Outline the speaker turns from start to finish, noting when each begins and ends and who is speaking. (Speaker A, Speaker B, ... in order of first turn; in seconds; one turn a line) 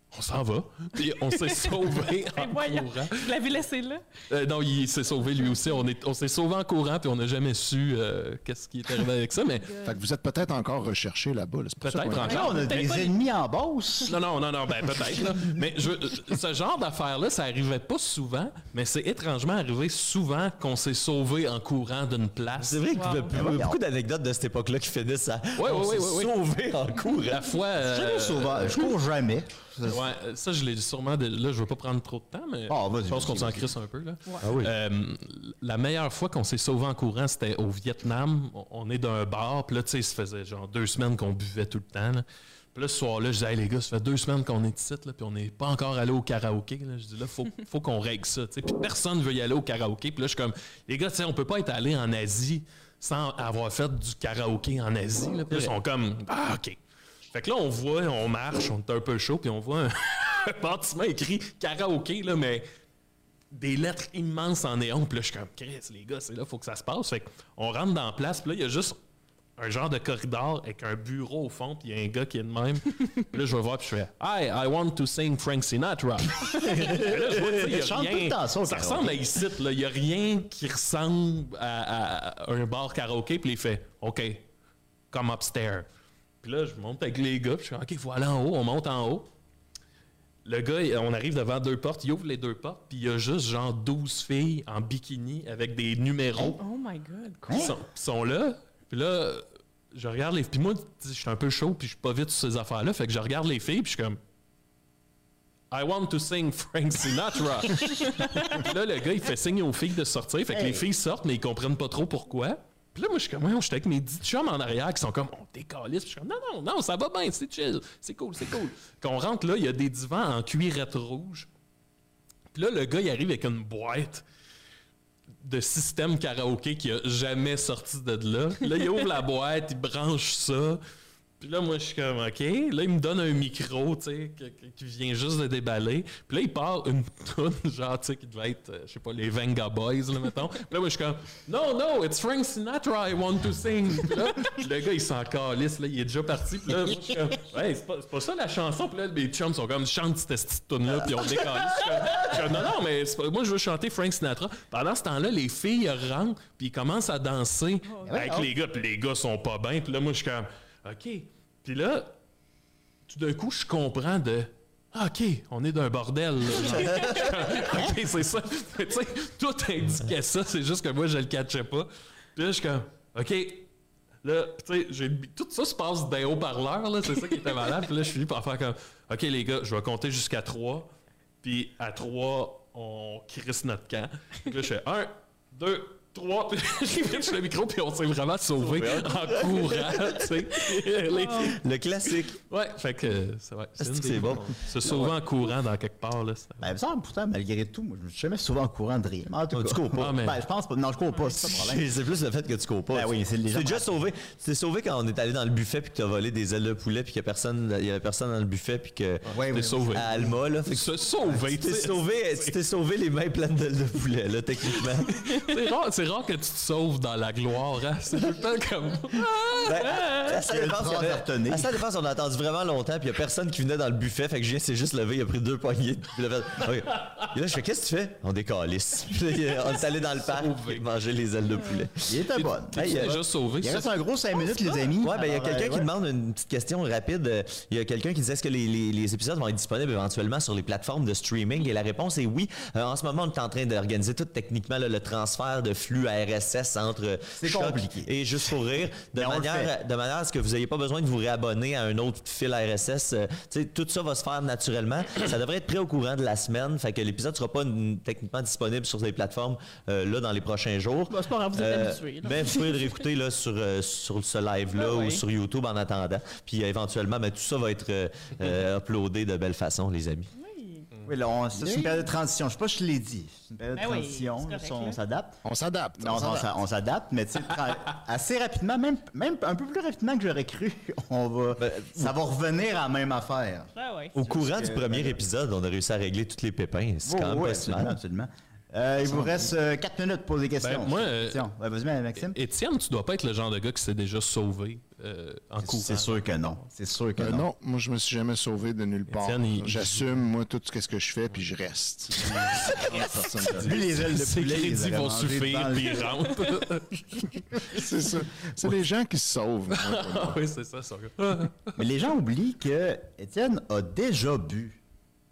Speaker A: 0.1-3.4
Speaker B: 1.3-4.0
Speaker A: 4.3-9.8
Speaker B: 5.4-5.8
Speaker C: 9.8-12.4
Speaker A: 11.8-13.2
Speaker B: 12.1-12.8
Speaker D: 12.2-14.1
Speaker A: 14.0-22.8
Speaker E: 22.6-27.6
Speaker B: 22.9-23.3
Speaker D: 23.3-23.8
Speaker A: 25.6-26.4
Speaker A: 27.3-28.9
Speaker D: 27.8-30.1
Speaker A: 29.8-56.8
Speaker D: 32.7-33.7
Speaker E: 34.4-34.7
Speaker A: 57.3-62.6
Speaker A: 63.5-69.0
Speaker A: 69.6-84.5
Speaker D: 76.7-79.2
Speaker A: 85.1-85.9
Speaker A: 86.4-89.3
Speaker A: 90.4-96.6
Speaker B: 96.5-97.7
Speaker A: 97.5-104.2
Speaker A: 105.7-121.5
Speaker D: 110.5-110.8
Speaker A: 122.5-124.2
Speaker A: 125.4-130.8
Speaker A: 131.4-162.1
Speaker B: 157.9-158.2
Speaker D: 158.1-158.5
Speaker A: 163.1-173.7
Speaker E: 166.6-167.3
Speaker B: 166.9-167.3
Speaker A: 174.2-180.9
Speaker A: 181.4-196.7
Speaker E: 188.6-190.3
Speaker B: 191.1-191.6
Speaker E: 191.4-192.4
Speaker E: 193.8-195.2
Speaker D: 196.6-201.8
Speaker E: 199.5-200.3
Speaker A: 199.9-200.3
Speaker B: 201.1-201.4
Speaker E: 201.5-209.4
Speaker D: 202.9-204.1
Speaker A: 209.3-212.5
Speaker D: 209.3-210.4
Speaker E: 209.9-215.2
Speaker A: 215.0-219.9
Speaker E: 218.1-218.4
Speaker E: 219.6-232.2
Speaker B: 219.6-220.3
Speaker D: 220.3-221.8
Speaker A: 230.2-230.8
Speaker D: 232.1-235.9
Speaker A: 232.3-234.0
Speaker E: 232.7-233.2
Speaker E: 235.0-270.3
Speaker D: 247.3-248.1
Speaker D: 249.1-249.7
Speaker B: 261.1-262.9
Speaker B: 264.8-265.2
Speaker B: 270.3-270.9
Speaker D: 271.1-275.4
Speaker B: 273.7-275.0
Speaker C: 275.4-276.5
Speaker D: 276.0-285.2
Speaker E: 281.6-282.1
Speaker B: 283.7-284.1
Speaker E: 284.1-288.0
Speaker D: 287.0-292.4
Speaker A: 290.6-291.5
Speaker A: 292.2-296.6
Speaker D: 295.6-297.4
Speaker C: 297.2-303.8
Speaker A: 299.1-300.1
Speaker A: 302.8-307.0
Speaker D: 303.5-306.1
Speaker C: 307.7-310.4
Speaker A: 309.7-311.9
Speaker D: 311.8-314.8